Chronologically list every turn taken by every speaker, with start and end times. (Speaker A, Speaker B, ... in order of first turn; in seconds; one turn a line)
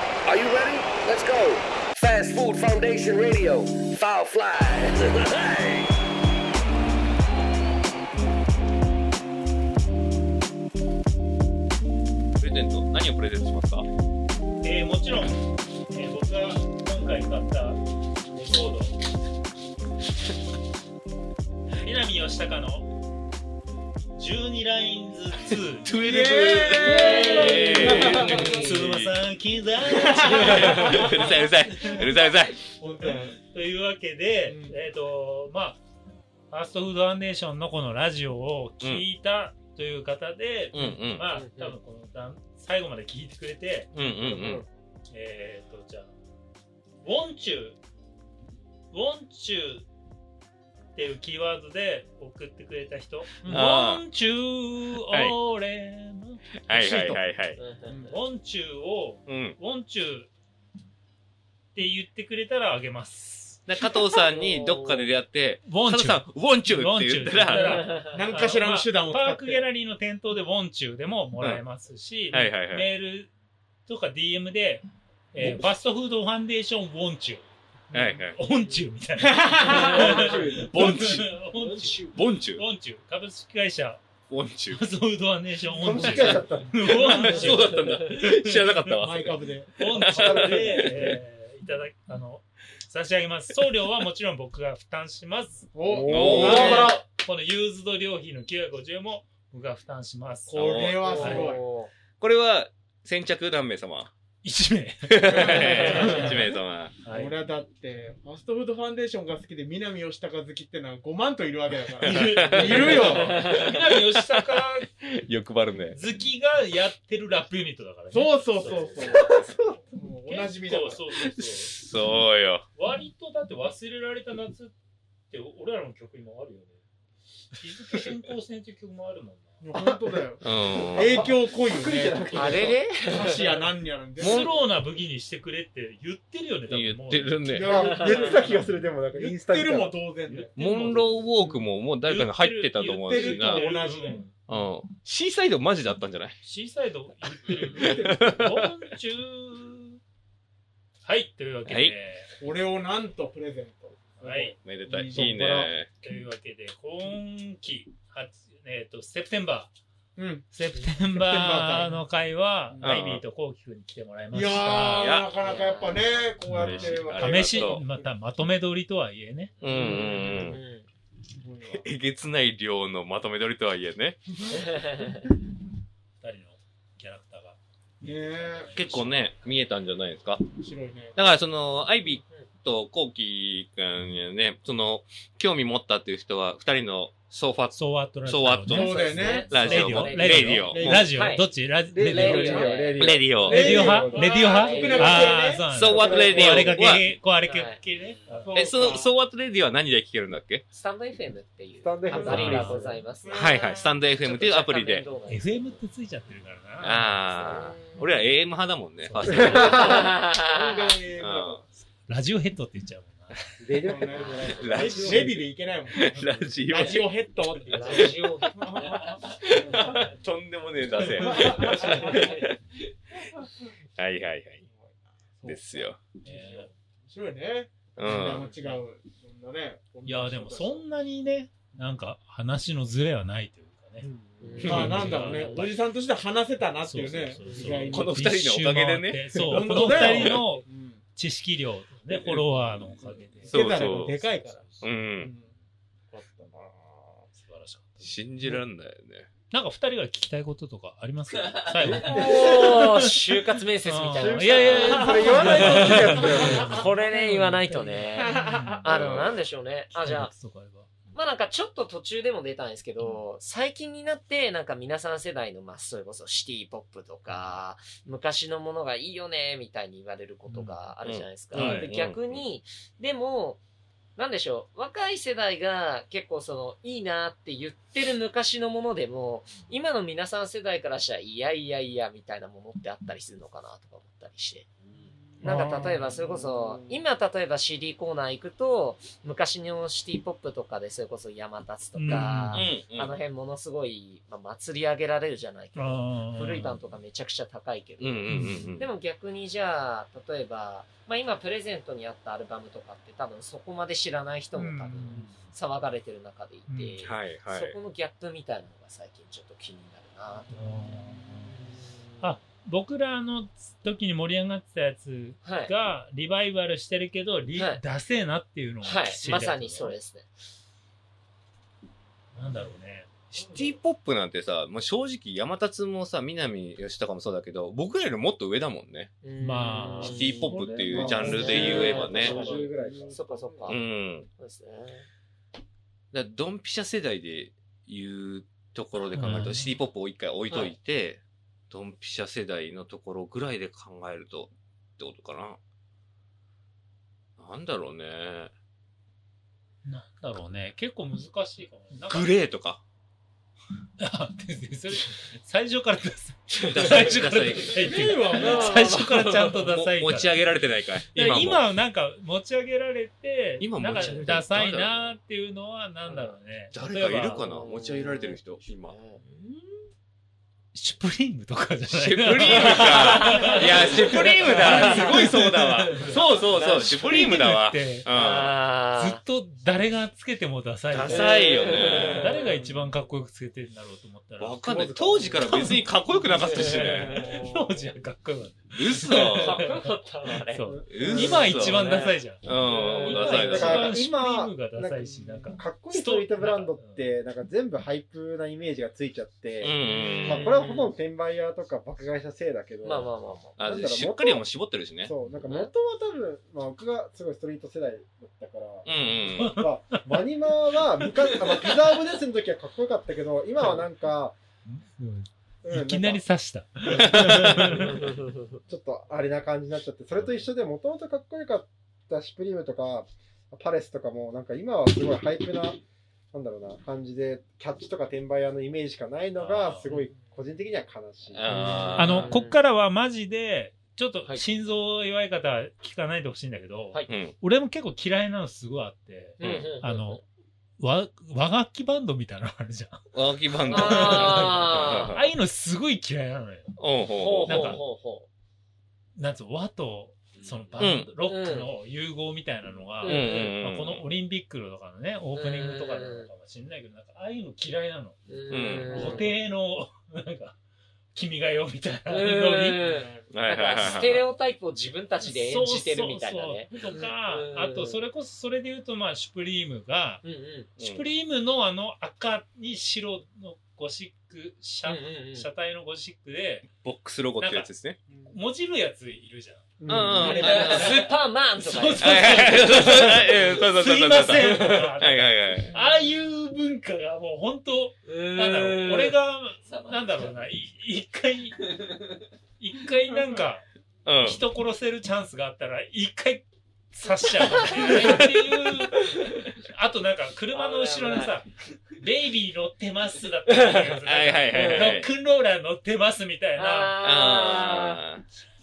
Speaker A: 0.3-5.9
Speaker B: 12.4-13.9
Speaker C: 14.6-17.8
Speaker C: 18.3-19.0
Speaker C: 21.8-22.9
Speaker C: 24.1-25.9
Speaker B: 25.8-29.1
Speaker D: 25.9-28.8
Speaker E: 26.9-28.7
Speaker C: 27.1-32.0
Speaker D: 29.9-31.3
Speaker B: 30.3-32.6
Speaker D: 32.8-33.4
Speaker C: 33.4-35.8
Speaker D: 34.5-34.8
Speaker C: 36.5-43.9
Speaker B: 40.7-41.3
Speaker E: 41.3-41.8
Speaker B: 43.9-44.6
Speaker E: 44.0-44.6
Speaker C: 45.1-46.1
Speaker C: 47.0-47.8
Speaker C: 48.9-49.9
Speaker C: 51.0-57.2
Speaker B: 53.5-54.0
Speaker B: 55.1-55.4
Speaker B: 56.6-57.6
Speaker E: 57.6-58.1
Speaker D: 57.9-58.1
Speaker C: 58.1-60.3
Speaker B: 59.3-59.6
Speaker C: 61.7-63.7
Speaker B: 63.7-67.9
Speaker E: 64.2-65.1
Speaker C: 65.7-73.3
Speaker E: 67.5-68.2
Speaker D: 68.1-69.6
Speaker B: 72.3-72.9
Speaker C: 73.9-84.0
Speaker B: 77.9-78.4
Speaker D: 79.2-80.3
Speaker E: 79.7-80.6
Speaker F: 79.7-80.7
Speaker B: 80.3-81.3
Speaker E: 81.6-82.2
Speaker B: 82.1-82.7
Speaker B: 84.3-84.8
Speaker C: 84.7-88.9
Speaker F: 85.7-87.0
Speaker B: 86.0-86.4
Speaker B: 87.0-90.8
Speaker D: 87.0-87.4
Speaker D: 89.0-89.7
Speaker C: 89.8-100.6
Speaker F: 90.1-91.2
Speaker D: 95.7-97.0
Speaker F: 95.9-97.0
Speaker B: 96.1-97.0
Speaker E: 96.4-96.8
Speaker D: 100.5-101.6
Speaker B: 100.5-101.4
Speaker E: 101.0-101.9
Speaker C: 101.2-101.5
Speaker B: 102.2-104.1
Speaker C: 104.4-107.4
Speaker B: 105.1-107.0
Speaker D: 105.3-106.6
Speaker E: 105.8-106.4
Speaker D: 107.1-113.4
Speaker C: 112.0-114.9
Speaker B: 112.0-116.0
Speaker E: 112.2-112.5
Speaker E: 113.2-113.8
Speaker C: 115.9-119.5
Speaker D: 118.1-121.0
Speaker F: 119.0-119.8
Speaker C: 120.3-121.8
Speaker B: 121.4-122.7
Speaker C: 122.8-124.7
Speaker C: 125.3-126.8
Speaker C: 127.5-129.6
Speaker D: 129.6-134.5
Speaker B: 130.4-131.3
Speaker F: 130.9-132.8
Speaker E: 132.3-133.5
Speaker C: 134.2-137.8
Speaker B: 134.2-134.6
Speaker B: 136.7-137.7
Speaker F: 137.6-139.9
Speaker D: 137.6-140.5
Speaker E: 137.8-138.3
Speaker C: 140.3-141.3
Speaker B: 140.6-143.7
Speaker C: 142.0-144.3
Speaker D: 143.0-144.3
Speaker B: 144.5-146.3
Speaker C: 146.4-150.0
Speaker B: 147.3-148.7
Speaker D: 147.8-148.4
Speaker C: 151.0-152.3
Speaker B: 151.7-151.9
Speaker D: 152.3-155.4
Speaker C: 154.2-154.6
Speaker B: 154.6-155.9
Speaker F: 155.1-155.7
Speaker C: 156.0-159.7
Speaker D: 160.2-160.5
Speaker C: 160.5-165.2
Speaker D: 161.0-162.1
Speaker D: 162.7-163.0
Speaker B: 162.8-163.2
Speaker D: 164.3-167.8
Speaker B: 165.0-165.3
Speaker E: 165.4-166.2
Speaker B: 166.5-167.8
Speaker C: 166.5-169.6
Speaker E: 169.6-170.9
Speaker B: 169.6-170.6
Speaker D: 169.7-170.5
Speaker D: 171.3-171.9
Speaker B: 171.7-174.4
Speaker E: 174.5-175.2
Speaker C: 176.2-177.6
Speaker D: 178.0-179.0
Speaker C: 178.4-179.4
Speaker B: 178.7-180.4
Speaker D: 180.6-181.2
Speaker B: 181.2-191.1
Speaker C: 187.8-192.7
Speaker D: 188.7-189.6
Speaker E: 188.7-191.5
Speaker D: 190.7-191.1
Speaker F: 191.9-195.0
Speaker E: 192.1-195.4
Speaker D: 192.4-192.8
Speaker B: 193.0-193.7
Speaker D: 193.5-195.8
Speaker C: 193.5-198.5
Speaker B: 195.7-197.1
Speaker F: 195.9-196.7
Speaker E: 196.1-196.4
Speaker E: 197.4-197.8
Speaker D: 198.3-199.1
Speaker B: 198.5-200.6
Speaker E: 200.7-205.8
Speaker F: 201.8-203.0
Speaker D: 202.1-202.5
Speaker C: 202.2-203.0
Speaker D: 203.2-203.8
Speaker B: 203.3-205.1
Speaker C: 205.3-207.6
Speaker B: 206.8-209.8
Speaker E: 207.4-208.2
Speaker C: 209.0-209.8
Speaker F: 209.3-210.0
Speaker D: 209.6-211.7
Speaker E: 209.8-210.9
Speaker B: 211.2-211.6
Speaker C: 211.8-213.4
Speaker F: 213.6-215.4
Speaker D: 213.8-220.2
Speaker E: 214.1-214.7
Speaker B: 214.5-215.4
Speaker B: 215.9-217.1
Speaker C: 216.1-216.5
Speaker B: 217.7-222.7
Speaker E: 217.7-218.9
Speaker D: 221.0-222.4
Speaker E: 221.7-222.5
Speaker B: 224.0-224.7
Speaker D: 224.6-230.9
Speaker B: 225.4-226.2
Speaker C: 226.2-226.7
Speaker B: 228.0-228.5
Speaker C: 230.1-234.1
Speaker F: 234.0-235.0
Speaker E: 234.4-235.6
Speaker C: 234.6-235.8
Speaker D: 234.6-238.2
Speaker B: 234.7-235.0
Speaker C: 236.8-243.6
Speaker B: 237.8-240.4
Speaker D: 239.4-241.0
Speaker B: 242.1-242.4
Speaker D: 243.4-244.7
Speaker B: 243.5-244.2
Speaker C: 244.2-244.9
Speaker B: 244.8-245.3
Speaker D: 245.2-245.5
Speaker D: 246.1-247.3
Speaker C: 247.3-248.1
Speaker B: 248.0-249.3
Speaker C: 249.5-253.0
Speaker F: 251.8-252.9
Speaker E: 252.1-258.3
Speaker C: 253.8-258.9
Speaker F: 254.2-256.8
Speaker D: 254.8-257.4
Speaker D: 258.1-258.9
Speaker E: 258.8-260.3
Speaker B: 258.9-259.4
Speaker C: 260.0-261.1
Speaker E: 261.1-273.6
Speaker C: 270.5-270.8
Speaker B: 271.0-272.4
Speaker C: 271.5-271.9
Speaker E: 274.2-284.7
Speaker E: 285.4-310.5
Speaker C: 285.4-286.1
Speaker F: 285.5-287.0
Speaker C: 292.0-292.6
Speaker B: 292.5-293.2
Speaker C: 295.8-296.8
Speaker B: 298.0-298.9
Speaker C: 298.3-298.7
Speaker C: 304.6-305.4
Speaker C: 306.7-307.0
Speaker B: 307.0-307.8
Speaker C: 310.5-311.6
Speaker E: 311.5-312.3
Speaker C: 312.2-319.9
Speaker E: 315.4-315.7
Speaker E: 317.5-317.8
Speaker E: 318.8-320.3
Speaker C: 322.3-323.3
Speaker B: 323.4-329.1
Speaker E: 329.2-330.5
Speaker C: 329.4-332.0
Speaker B: 330.0-332.4
Speaker F: 330.4-333.2
Speaker D: 331.0-331.6
Speaker E: 331.2-335.1
Speaker D: 332.2-333.7
Speaker B: 333.7-334.3
Speaker B: 336.1-345.6
Speaker C: 339.1-339.7
Speaker B: 347.4-348.5
Speaker C: 349.9-352.4
Speaker B: 352.1-352.8
Speaker C: 354.0-360.4
Speaker B: 356.6-358.2
Speaker E: 356.6-357.1
Speaker D: 357.8-359.1
Speaker E: 358.3-359.6
Speaker B: 359.6-361.6
Speaker C: 361.1-367.4
Speaker B: 363.6-365.1
Speaker E: 364.0-364.2
Speaker E: 366.1-366.4
Speaker B: 366.7-369.0
Speaker E: 367.4-369.7
Speaker C: 370.7-378.1
Speaker B: 371.9-378.6
Speaker E: 372.6-374.1
Speaker E: 374.7-375.2
Speaker E: 376.5-376.9
Speaker E: 378.1-379.2
Speaker C: 379.0-381.3
Speaker B: 380.9-382.4
Speaker E: 381.1-382.9
Speaker C: 382.0-384.6
Speaker B: 384.4-387.2
Speaker F: 384.7-385.1
Speaker C: 385.4-385.8
Speaker C: 386.5-397.1
Speaker E: 386.7-387.2
Speaker D: 387.1-387.9
Speaker B: 388.7-389.6
Speaker E: 389.3-392.2
Speaker F: 390.7-391.6
Speaker B: 390.9-393.9
Speaker D: 392.7-393.0
Speaker E: 392.9-393.4
Speaker F: 393.2-414.4
Speaker D: 395.0-395.5
Speaker B: 399.6-400.5
Speaker E: 399.9-401.0
Speaker E: 402.8-403.6
Speaker B: 403.6-405.1
Speaker E: 405.3-405.7
Speaker B: 408.9-409.5
Speaker C: 409.4-410.2
Speaker C: 411.0-411.7
Speaker C: 414.6-418.1
Speaker F: 415.6-416.3
Speaker B: 416.9-417.7
Speaker E: 417.7-418.6
Speaker F: 418.7-425.8
Speaker F: 426.3-432.0
Speaker C: 429.4-429.9
Speaker E: 429.8-430.3
Speaker B: 431.3-432.3
Speaker E: 431.5-432.6
Speaker C: 432.0-440.2
Speaker B: 437.1-437.4
Speaker E: 439.4-440.2
Speaker B: 439.4-439.7
Speaker C: 440.8-443.0
Speaker B: 443.1-445.3
Speaker C: 443.6-446.7
Speaker E: 443.7-445.1
Speaker B: 446.8-447.8
Speaker E: 447.1-448.3
Speaker C: 447.4-447.8
Speaker C: 449.2-460.6
Speaker B: 450.8-451.1
Speaker E: 451.2-451.7
Speaker E: 453.0-453.6
Speaker B: 453.0-454.1
Speaker E: 455.3-456.3
Speaker E: 458.3-459.4
Speaker B: 458.5-459.2
Speaker D: 458.9-459.2
Speaker C: 461.1-462.9
Speaker E: 462.1-468.0
Speaker D: 462.8-463.4
Speaker B: 463.3-464.3
Speaker C: 463.9-464.2
Speaker C: 465.2-470.2
Speaker E: 470.2-470.7
Speaker C: 470.8-476.7
Speaker B: 470.8-471.1
Speaker E: 474.9-475.5
Speaker B: 476.8-478.0
Speaker C: 477.4-477.7
Speaker D: 478.1-478.4
Speaker C: 478.3-479.7
Speaker F: 479.8-480.3
Speaker B: 479.9-481.1
Speaker D: 480.2-480.9
Speaker C: 480.2-491.8
Speaker E: 480.2-483.1
Speaker B: 482.0-485.7
Speaker E: 488.1-489.2
Speaker C: 492.6-493.6
Speaker B: 494.1-494.4
Speaker C: 494.2-507.0
Speaker E: 497.5-498.3
Speaker E: 500.5-501.4
Speaker E: 503.5-503.8
Speaker B: 504.1-505.1
Speaker E: 504.5-505.0
Speaker E: 506.6-508.0
Speaker B: 507.0-508.2